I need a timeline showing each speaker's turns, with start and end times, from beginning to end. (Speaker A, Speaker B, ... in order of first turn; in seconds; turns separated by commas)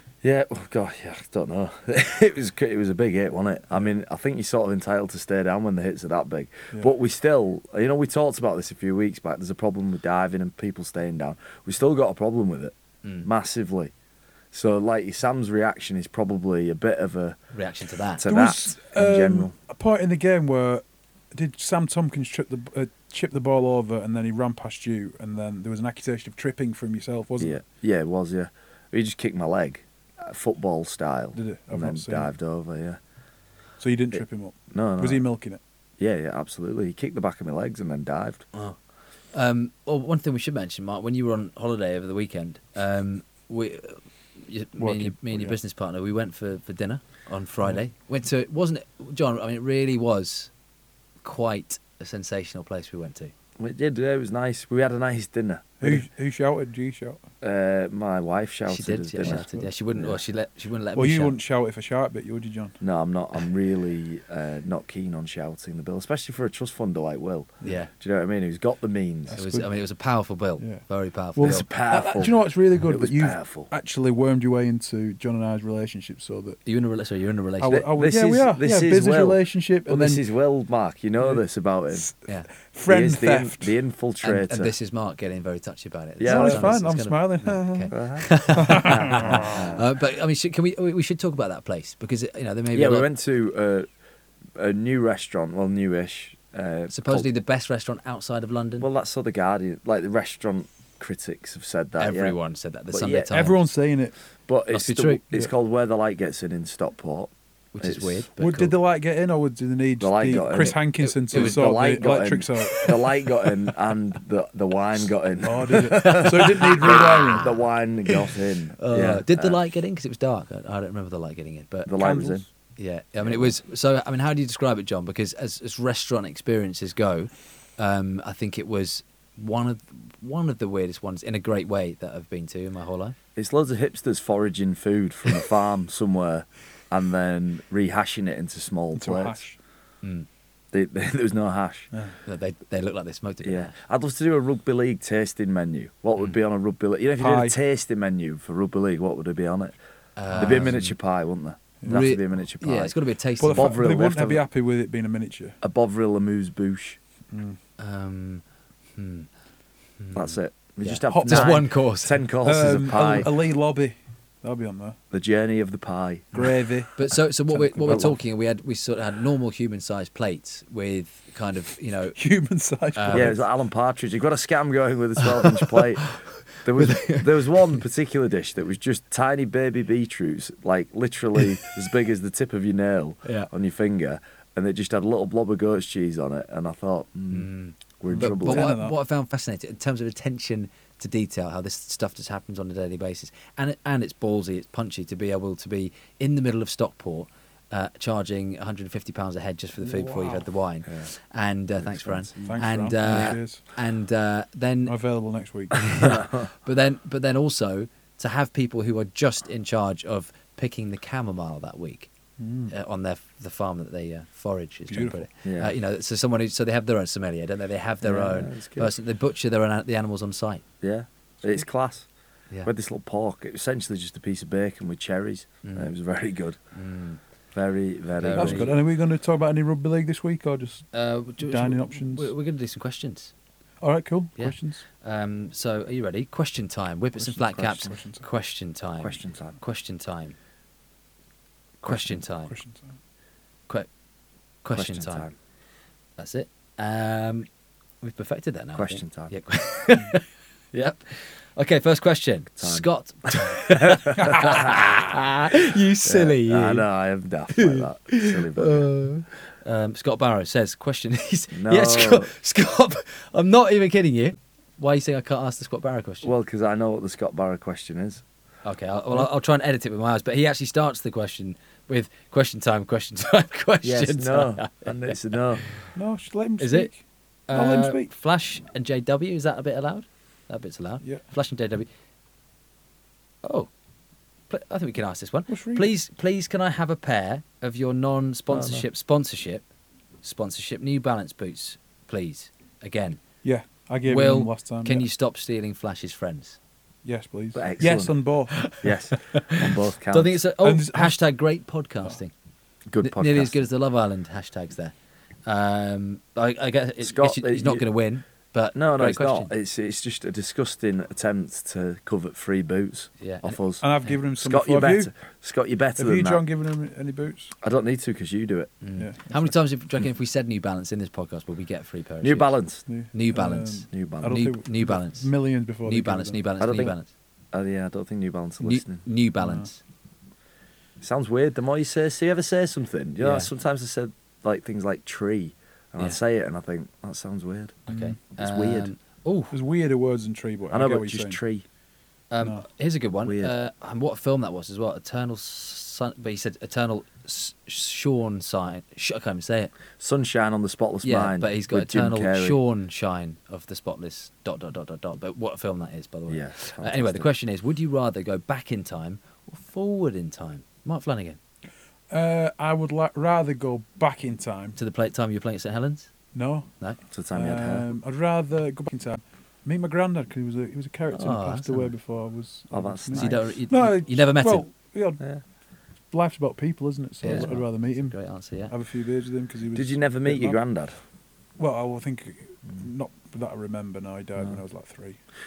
Speaker A: 0.2-13.9, Speaker A: 14.5-17.4, Speaker B: 17.5-18.2, Speaker A: 18.1-19.5, Speaker C: 18.2-27.6, Speaker A: 27.4-33.0, Speaker C: 31.3-32.3, Speaker C: 33.8-35.6, Speaker A: 34.7-35.2, Speaker A: 36.0-38.5, Speaker B: 39.3-50.5, Speaker C: 44.8-45.6, Speaker B: 51.2-53.3, Speaker A: 53.6-56.0, Speaker C: 55.8-57.2, Speaker A: 57.4-60.2, Speaker B: 58.7-61.4, Speaker C: 59.2-59.7, Speaker C: 60.9-62.8, Speaker A: 62.8-69.4, Speaker B: 67.6-67.9, Speaker C: 69.3-69.7, Speaker B: 69.4-71.7, Speaker C: 70.6-76.6, Speaker A: 71.4-73.7, Speaker B: 76.6-77.9, Speaker C: 77.6-80.2, Speaker A: 77.7-82.1, Speaker C: 81.2-83.8, Speaker A: 82.9-84.7, Speaker B: 84.2-93.1, Speaker A: 86.2-86.8, Speaker C: 86.2-87.9, Speaker A: 87.9-89.8, Speaker C: 88.6-89.6, Speaker A: 92.7-93.9, Speaker A: 94.6-97.3, Speaker B: 96.9-98.9, Speaker A: 98.8-102.4, Speaker B: 102.0-103.6, Speaker A: 102.9-103.3, Speaker C: 103.3-104.1, Speaker A: 104.5-108.2, Speaker B: 104.7-105.2, Speaker B: 107.7-108.8, Speaker C: 108.4-113.1, Speaker A: 110.0-110.8, Speaker B: 110.6-112.1, Speaker A: 111.3-119.6, Speaker B: 112.6-113.0, Speaker C: 115.4-117.5, Speaker B: 115.9-118.2, Speaker B: 118.8-121.9, Speaker A: 121.9-122.4, Speaker C: 122.0-122.4, Speaker B: 122.8-133.2, Speaker A: 123.2-123.6, Speaker A: 133.4-139.4, Speaker C: 138.9-139.6, Speaker B: 140.0-140.3, Speaker A: 140.7-141.9, Speaker B: 142.2-143.7, Speaker A: 143.4-149.8, Speaker C: 147.2-147.6, Speaker B: 150.2-150.9, Speaker C: 150.3-150.8, Speaker A: 150.4-152.9, Speaker C: 151.8-152.1, Speaker B: 151.9-153.7, Speaker C: 153.4-155.6, Speaker A: 153.5-154.4, Speaker A: 155.6-157.0, Speaker C: 157.3-157.6, Speaker B: 157.8-158.4, Speaker B: 158.9-159.3, Speaker B: 160.0-162.2, Speaker A: 160.1-163.3, Speaker C: 161.1-161.7, Speaker C: 162.4-165.0, Speaker A: 165.1-166.5, Speaker C: 166.3-168.1, Speaker B: 166.9-172.2, Speaker A: 167.9-168.1, Speaker C: 172.2-173.4, Speaker B: 172.9-173.4, Speaker A: 173.1-188.8, Speaker B: 175.2-177.8, Speaker B: 183.2-183.5, Speaker B: 187.3-204.9, Speaker C: 188.1-188.9, Speaker C: 199.8-200.4, Speaker A: 201.8-203.3, Speaker C: 202.4-203.6, Speaker C: 204.8-205.9, Speaker B: 205.8-212.1, Speaker A: 205.9-206.5, Speaker C: 212.4-212.7, Speaker B: 212.7-220.6, Speaker C: 214.9-215.3, Speaker A: 215.4-215.7, Speaker A: 218.0-218.9, Speaker A: 220.8-222.1, Speaker A: 222.6-226.6, Speaker B: 225.6-225.9, Speaker B: 226.7-227.2, Speaker A: 227.5-228.7, Speaker B: 228.2-228.8, Speaker C: 228.3-232.3, Speaker B: 230.9-233.3, Speaker C: 233.8-234.8, Speaker B: 234.4-240.4, Speaker A: 237.2-237.9, Speaker C: 237.8-238.2, Speaker A: 239.0-239.6, Speaker C: 241.8-242.9, Speaker B: 241.8-242.6, Speaker B: 244.6-245.3, Speaker A: 244.7-245.3, Speaker B: 246.2-247.5, Speaker B: 248.0-256.9, Speaker A: 248.8-249.3, Speaker A: 252.6-254.9, Speaker A: 256.1-258.9, Speaker B: 257.5-266.3, Speaker A: 261.5-262.3, Speaker A: 266.2-268.2, Speaker B: 268.6-275.9, Speaker A: 273.8-275.6, Speaker C: 275.9-277.0, Speaker B: 276.6-276.9, Speaker B: 277.5-281.9, Speaker C: 277.5-278.1, Speaker B: 283.4-283.7, Speaker B: 284.5-289.6, Speaker C: 285.5-285.9, Speaker A: 288.5-288.9, Speaker B: 290.2-293.2, Speaker C: 293.4-295.1, Speaker B: 294.1-296.6, Speaker C: 297.1-298.7, Speaker A: 297.6-298.1, Speaker A: 298.8-300.4, Speaker B: 299.3-302.3, Speaker C: 300.6-301.2, Speaker A: 302.9-303.6, Speaker B: 303.0-304.9, Speaker B: 305.4-309.5, Speaker A: 307.0-307.9, Speaker A: 308.8-313.8, Speaker B: 313.2-314.1, Speaker C: 313.8-315.1, Speaker A: 314.4-316.4, Speaker C: 315.9-317.6, Speaker A: 317.6-318.7, Speaker B: 318.8-322.6, Speaker C: 319.0-319.6, Speaker A: 322.2-322.9, Speaker C: 322.9-326.4, Speaker B: 323.1-325.3, Speaker A: 323.9-324.4, Speaker B: 325.9-327.1, Speaker A: 326.6-326.9, Speaker A: 327.5-329.0, Speaker B: 328.6-329.8, Speaker C: 329.4-329.7, Speaker A: 331.0-337.8, Speaker B: 333.2-333.5, Speaker B: 337.9-339.6, Speaker C: 337.9-338.1, Speaker A: 338.4-338.9, Speaker C: 339.5-341.4, Speaker A: 340.7-341.6, Speaker B: 342.3-349.7, Speaker A: 343.3-343.5, Speaker A: 350.0-352.6, Speaker B: 351.0-361.4, Speaker A: 356.3-357.3, Speaker C: 362.1-364.8, Speaker B: 364.8-366.1, Speaker C: 366.3-366.7, Speaker A: 367.1-367.9, Speaker C: 367.3-375.3, Speaker B: 371.1-371.9, Speaker A: 372.7-373.5, Speaker B: 373.1-374.6, Speaker C: 376.1-378.2, Speaker B: 377.2-378.7, Speaker C: 378.7-380.6, Speaker A: 379.7-381.0, Speaker C: 381.6-385.2